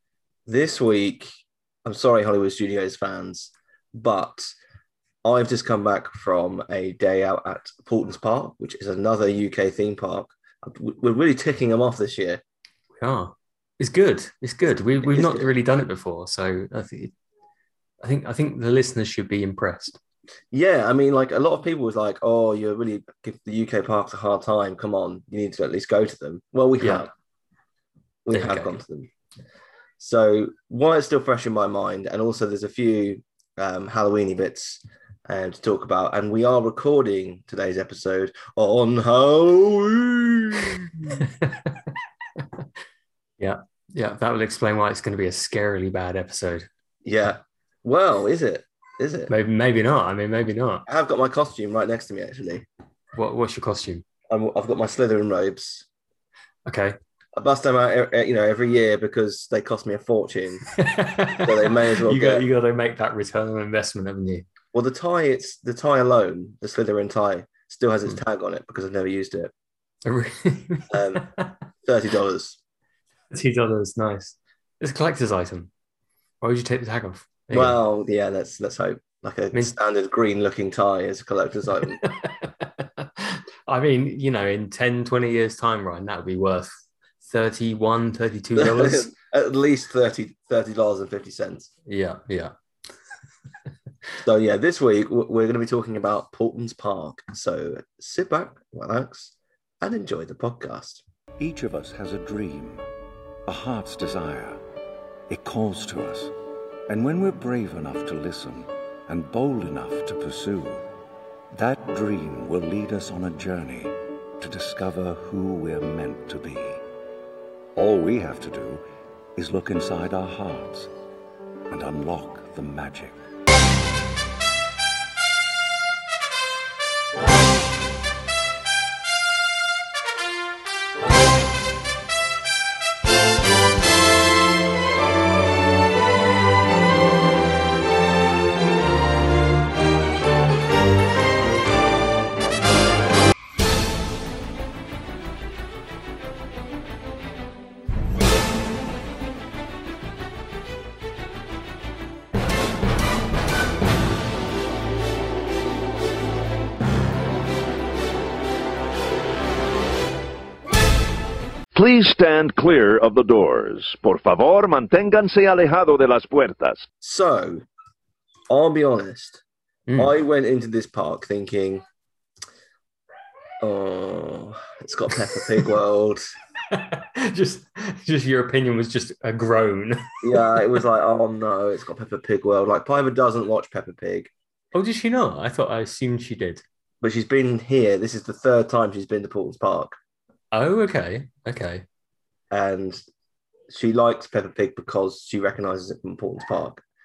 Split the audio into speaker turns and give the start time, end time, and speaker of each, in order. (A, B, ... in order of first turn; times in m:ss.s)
0:00.5-0:01.3 A
0:01.8-0:04.5 A
0:05.2-0:12.4 A
0:13.0-0:17.1 B
0:15.0-0:15.5 A
0:18.0-0:20.0 B
0:20.5-0:27.1 A
0:28.3-0:29.1 A
0:28.3-0:28.7 B
0:30.0-0:41.2 A
0:41.2-0:41.8 B
0:43.4-0:46.7 B
0:47.0-0:49.3 A
0:49.3-0:50.8 B
0:50.9-0:52.7 A
0:53.2-0:54.0 B
0:54.3-0:55.8 A
0:56.7-0:57.0 B
0:57.4-1:00.7 A
1:00.7-1:04.4 B
1:01.3-1:02.4 A
1:04.7-1:09.5 A
1:10.0-1:11.5 B
1:10.9-1:11.3 A
1:11.8-1:12.6 A
1:13.3-1:15.7 B
1:16.4-1:17.8 B
1:17.5-1:22.1 A
1:22.0-1:26.7 B
1:27.2-1:29.1 B
1:28.6-1:31.7 A
1:31.9-1:32.5 B
1:34.2-1:41.0 A
1:41.4-1:42.8 C
1:43.5-1:44.6 C
1:45.3-1:46.3 C
1:46.9-1:50.9 C
1:51.5-1:56.8 C
1:57.8-1:58.8 C
1:59.4-2:00.9 C
2:01.7-2:03.2 C
2:41.8-2:46.8 D
2:47.0-2:47.6 A
2:48.5-2:49.4 A
2:50.0-2:51.8 A
2:53.6-2:56.3 A
2:56.7-3:00.7 B
3:00.2-3:04.3 A
3:04.7-3:06.6 B
3:07.0-3:10.0 A
3:10.5-3:11.8 B
3:12.5-3:13.0 A
3:13.7-3:16.8 A